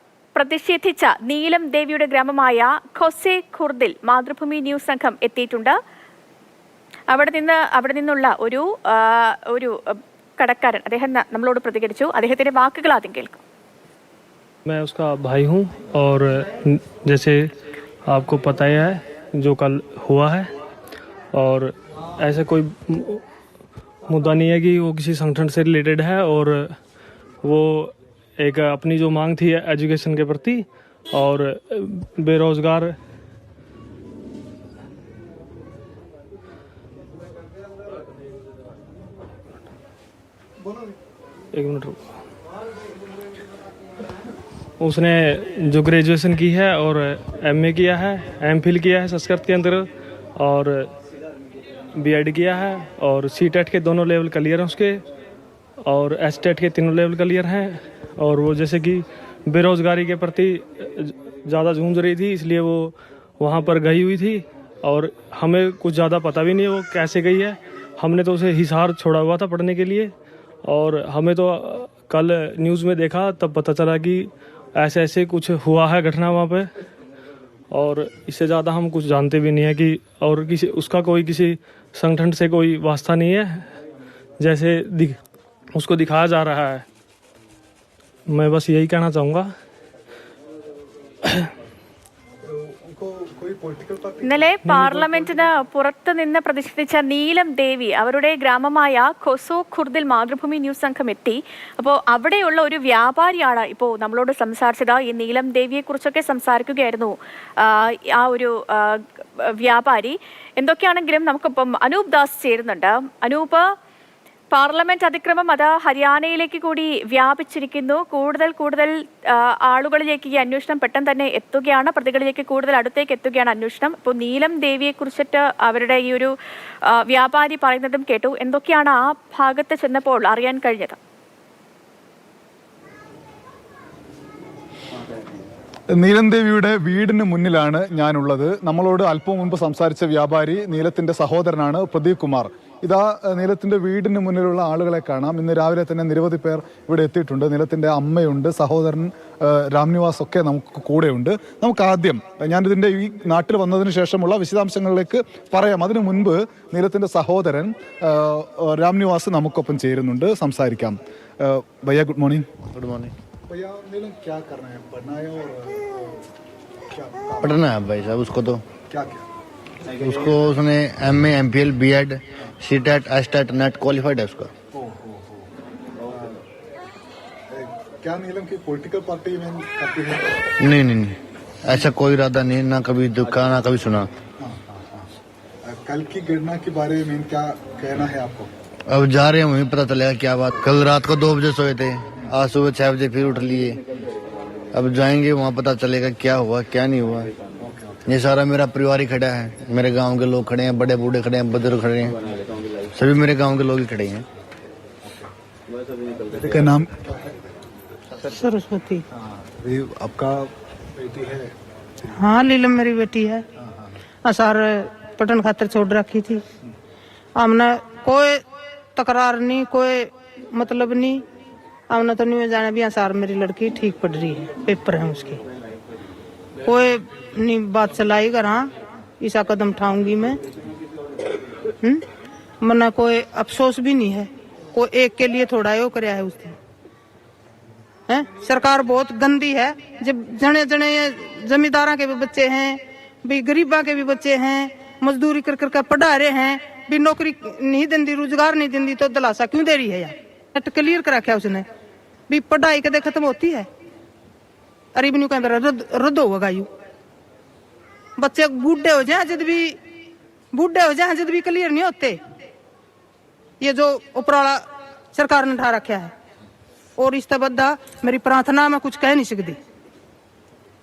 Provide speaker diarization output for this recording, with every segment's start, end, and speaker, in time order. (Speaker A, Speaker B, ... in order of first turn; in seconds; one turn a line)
Speaker A: 0.3-5.8
Speaker A: 7.1-13.4
Speaker B: 14.7-17.5
Speaker B: 18.1-20.5
Speaker B: 21.3-23.2
Speaker B: 24.1-26.8
Speaker B: 27.4-33.0
Speaker B: 41.5-42.0
Speaker B: 44.8-50.9
Speaker B: 52.0-55.0
Speaker B: 55.8-70.1
Speaker B: 70.7-76.7
Speaker B: 77.7-83.7
Speaker B: 84.4-85.2
Speaker B: 85.8-86.8
Speaker B: 88.3-89.5
Speaker C: 92.5-95.5
Speaker A: 94.2-113.7
Speaker A: 114.5-126.3
Speaker A: 126.9-131.0
Speaker C: 135.9-162.5
Speaker D: 162.7-163.1
Speaker C: 163.5-166.2
Speaker C: 166.9-167.7
Speaker D: 167.4-168.6
Speaker C: 168.9-169.2
Speaker D: 170.0-174.5
Speaker C: 174.7-175.5
Speaker C: 176.1-176.4
Speaker C: 177.5-180.4
Speaker D: 180.6-184.1
Speaker C: 184.4-185.1
Speaker C: 185.6-188.5
Speaker D: 188.9-193.8
Speaker D: 194.7-197.3
Speaker C: 197.6-198.0
Speaker D: 198.1-204.2
Speaker C: 206.2-207.3
Speaker E: 208.2-209.0
Speaker C: 209.2-211.5
Speaker E: 212.1-213.4
Speaker C: 213.6-213.9
Speaker E: 214.2-216.4
Speaker E: 217.3-218.4
Speaker E: 218.9-221.2
Speaker E: 221.9-225.4
Speaker E: 226.6-230.4
Speaker E: 232.6-236.5
Speaker E: 238.1-251.7
Speaker E: 252.3-253.7
Speaker E: 254.9-256.7
Speaker E: 258.2-259.8
Speaker E: 260.5-262.2
Speaker E: 263.6-264.6
Speaker E: 265.1-266.1
Speaker E: 267.0-269.6